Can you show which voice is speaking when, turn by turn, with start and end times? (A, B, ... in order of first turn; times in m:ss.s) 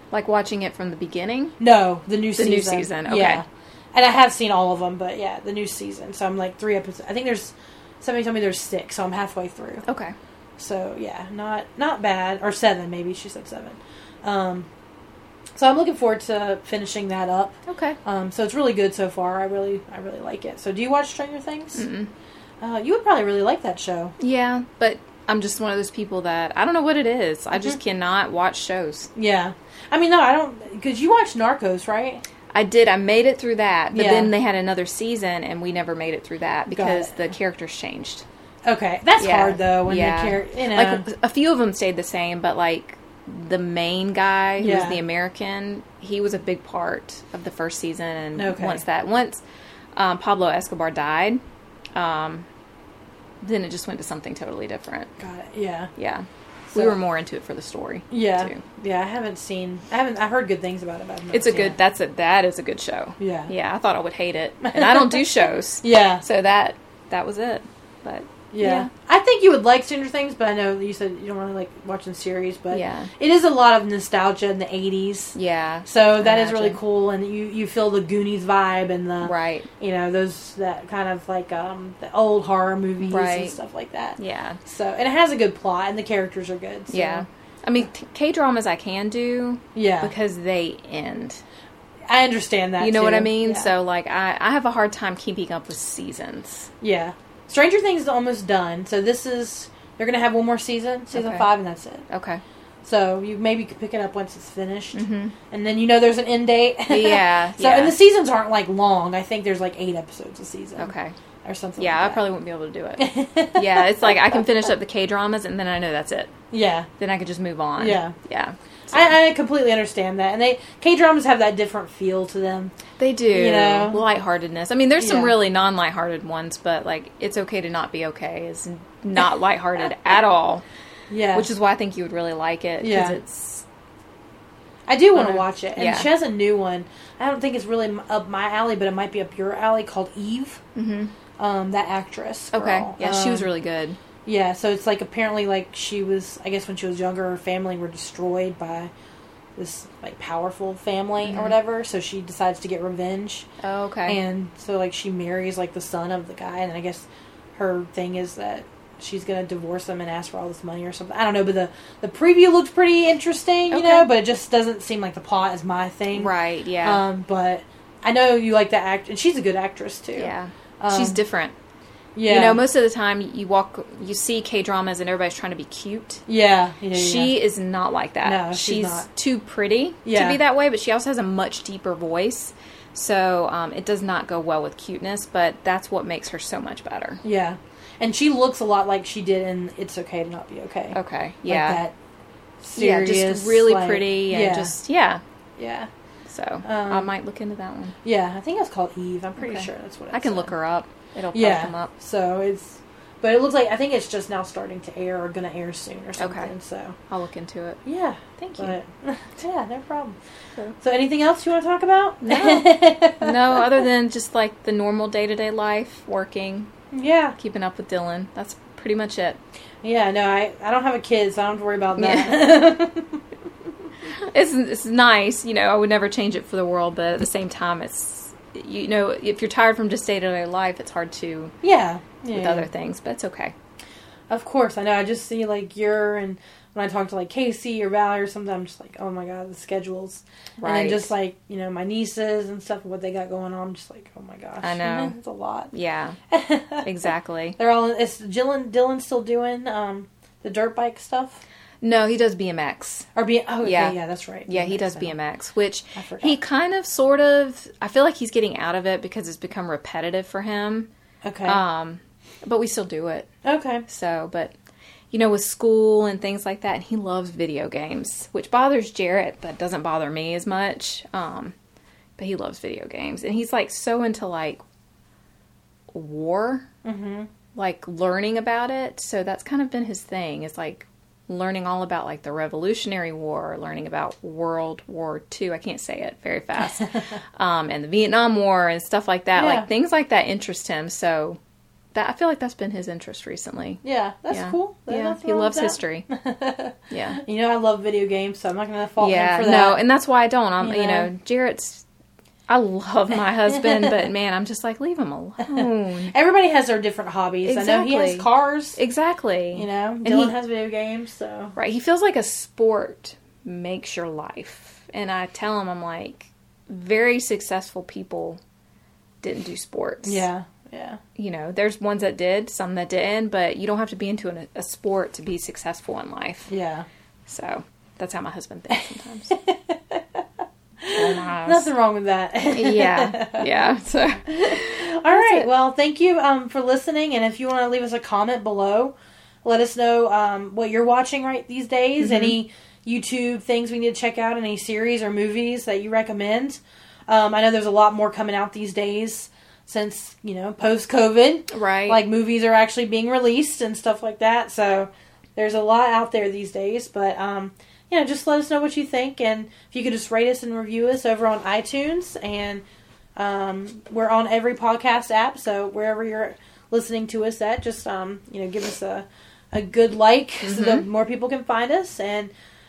0:00.1-0:01.6 A
0:01.6-0:09.8 B
0:02.4-0:03.4 A
0:09.8-0:10.2 A
0:10.6-0:14.7 B
0:15.6-0:21.9 B
0:17.7-0:18.0 A
0:21.8-0:22.1 A
0:22.6-0:24.2 B
0:24.2-0:29.1 A
0:29.2-0:32.2 B
0:32.5-0:38.2 A
0:33.9-0:34.3 B
0:36.8-0:37.1 B
0:38.7-0:41.1 B
0:39.2-0:49.4 A
0:44.6-0:45.0 B
0:48.4-0:48.8 B
0:50.0-0:51.4 A
0:52.0-0:52.5 A
0:53.4-0:55.1 A
0:55.2-0:55.9 B
0:56.0-0:58.6 A
0:58.1-1:01.8 B
1:01.3-1:08.9 A
1:03.2-1:03.5 B
1:04.6-1:05.3 B
1:05.8-1:06.2 B
1:08.5-1:27.3 B
1:12.7-1:13.1 A
1:15.4-1:16.8 A
1:19.2-1:19.7 A
1:23.0-1:23.6 A
1:24.2-1:24.6 A
1:26.9-1:31.4 A
1:29.8-1:30.1 B
1:32.1-1:33.7 B
1:32.8-1:36.7 A
1:36.8-1:42.0 B
1:41.1-1:41.5 A
1:42.1-1:42.4 A
1:42.8-1:50.9 B
1:44.9-1:45.4 A
1:46.9-1:48.0 A
1:50.8-1:51.2 A
1:51.4-1:52.2 B
1:51.8-1:56.4 A
1:53.0-1:54.2 B
1:56.5-1:56.9 B
1:57.0-1:59.2 A
1:57.8-1:58.2 B
1:58.9-2:02.7 B
2:03.0-2:10.6 A
2:03.3-2:04.0 B
2:05.0-2:05.4 B
2:11.1-2:11.5 B
2:11.3-2:13.6 A
2:12.8-2:13.2 B
2:14.9-2:20.6 B
2:15.2-2:16.1 A
2:20.8-2:21.1 A
2:21.4-2:23.5 B
2:22.5-2:24.0 A
2:24.2-2:28.9 B
2:29.6-2:33.5 B
2:31.2-2:31.6 A
2:33.6-2:34.2 A
2:34.1-2:51.2 B
2:43.7-2:44.1 A
2:46.1-2:47.0 A
2:50.2-2:51.6 A
2:52.2-2:52.6 B
2:52.3-2:56.2 A
2:56.3-2:57.4 B
2:56.9-3:07.2 A
2:58.2-2:59.1 B
3:00.0-3:00.4 B
3:07.2-3:11.9 B
3:10.9-3:11.8 A
3:12.6-3:14.8 B
3:12.8-3:15.2 A
3:15.6-3:15.9 B
3:16.3-3:18.0 A
3:16.6-3:17.1 B
3:18.0-3:20.5 B
3:19.4-3:21.9 A
3:21.3-3:27.0 B
3:26.2-3:26.5 A
3:27.1-3:27.8 A
3:27.8-3:30.2 B
3:28.4-3:28.8 A
3:30.8-3:33.8 B
3:32.2-3:36.7 A
3:36.9-3:37.4 B
3:37.4-3:39.4 A
3:39.8-3:43.2 B
3:42.0-3:42.6 A
3:44.2-3:51.6 A
3:51.6-3:52.7 B
3:52.3-3:53.5 A
3:54.3-4:05.7 B
4:00.6-4:01.1 A
4:04.6-4:05.2 A
4:05.7-4:06.2 A
4:06.3-4:06.9 B
4:06.8-4:07.6 A
4:07.6-4:11.4 B
4:11.8-4:13.1 A
4:13.2-4:15.1 B
4:13.6-4:14.0 A
4:14.5-4:20.9 A
4:16.0-4:16.4 B
4:21.2-4:21.6 B
4:21.4-4:23.3 A
4:23.4-4:23.8 B
4:23.9-4:24.5 A
4:25.1-4:31.6 A
4:32.2-4:34.6 A
4:35.9-4:36.7 A
4:36.8-4:37.3 B
4:37.6-4:51.4 A
4:49.4-4:49.7 B
4:51.9-4:56.1 A
4:53.8-4:59.8 B
4:56.9-4:57.2 A
4:59.0-5:01.8 A
5:00.6-5:01.1 B
5:02.5-5:06.1 A
5:03.5-5:04.0 B
5:05.4-5:08.8 B
5:07.4-5:10.4 A
5:09.5-5:11.6 B
5:11.6-5:18.4 A
5:19.2-5:20.2 A
5:20.0-5:21.0 B
5:21.2-5:26.5 A
5:26.5-5:26.9 B
5:27.3-5:29.4 A
5:29.3-5:30.2 B
5:30.8-5:33.5 B
5:30.9-5:31.7 A
5:32.5-5:35.5 A
5:34.3-5:38.9 B
5:39.4-6:02.6 B
5:42.0-5:42.4 A
5:51.5-5:52.0 A
6:03.2-6:12.3 B
6:10.4-6:10.9 A